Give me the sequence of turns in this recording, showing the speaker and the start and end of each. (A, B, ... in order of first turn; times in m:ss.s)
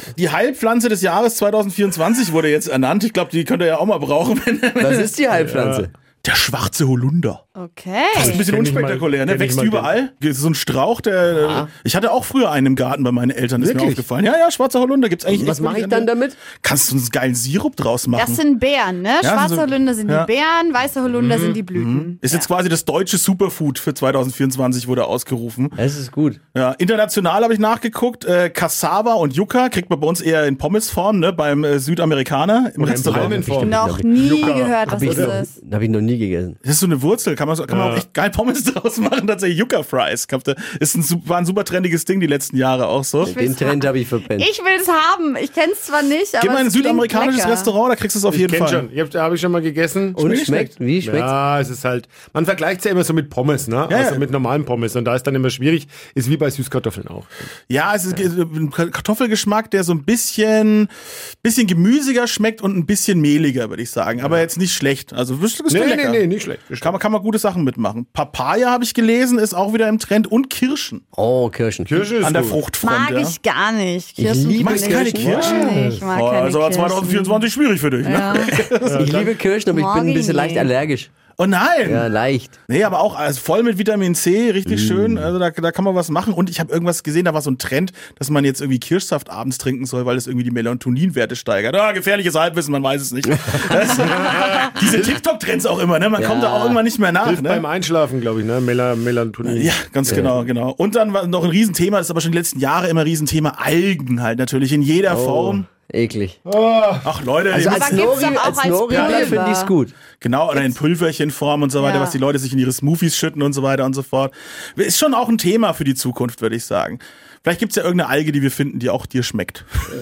0:00.2-0:05.1 A
0:04.8-0:05.9 B
0:05.3-0:05.9 C
0:06.2-0:07.4 A
0:07.6-0:08.4 D
0:08.1-0:09.9 C
0:08.2-0:18.4 A
0:11.3-0:11.7 B
0:13.6-0:14.0 C
0:15.3-0:16.4 B
0:18.2-0:22.5 D
0:19.2-0:20.3 A
0:21.1-0:21.6 C
0:21.7-0:25.8 A
0:25.8-0:26.4 B
0:26.5-0:33.6 A
0:32.8-0:35.4 C
0:33.0-0:34.4 B
0:33.6-0:35.6 D
0:34.9-0:36.6 B
0:36.6-0:43.4 A
0:37.7-0:38.0 C
0:43.2-0:44.5 B
0:43.2-0:47.7 D
0:46.4-0:48.9 A
0:48.3-0:50.2 C
0:50.2-0:50.7 A
0:50.2-0:51.3 B
0:51.0-0:57.3 C
0:53.9-0:54.2 A
0:57.7-1:00.9 A
1:01.4-1:06.2 A
1:05.7-1:07.0 C
1:06.8-1:11.0 A
1:11.2-1:12.1 B
1:11.9-1:12.6 C
1:12.2-1:13.4 A
1:12.8-1:17.4 D
1:14.2-1:15.5 B
1:14.6-1:19.1 A
1:15.2-1:16.1 C
1:18.0-1:18.5 D
1:18.8-1:19.3 C
1:18.8-1:21.1 B
1:19.7-1:20.7 D
1:21.4-1:22.1 A
1:21.8-1:22.5 B
1:22.7-1:37.6 A
1:24.7-1:25.3 B
1:36.2-1:36.8 B
1:37.2-1:40.4 C
1:39.4-1:45.7 A
1:40.1-1:40.3 B
1:45.1-1:46.4 B
1:46.4-1:47.1 C
1:47.0-1:49.3 A
1:47.5-1:49.9 B
1:47.6-1:49.7 D
1:49.0-1:49.4 C
1:50.2-1:59.7 A
1:51.8-1:52.2 D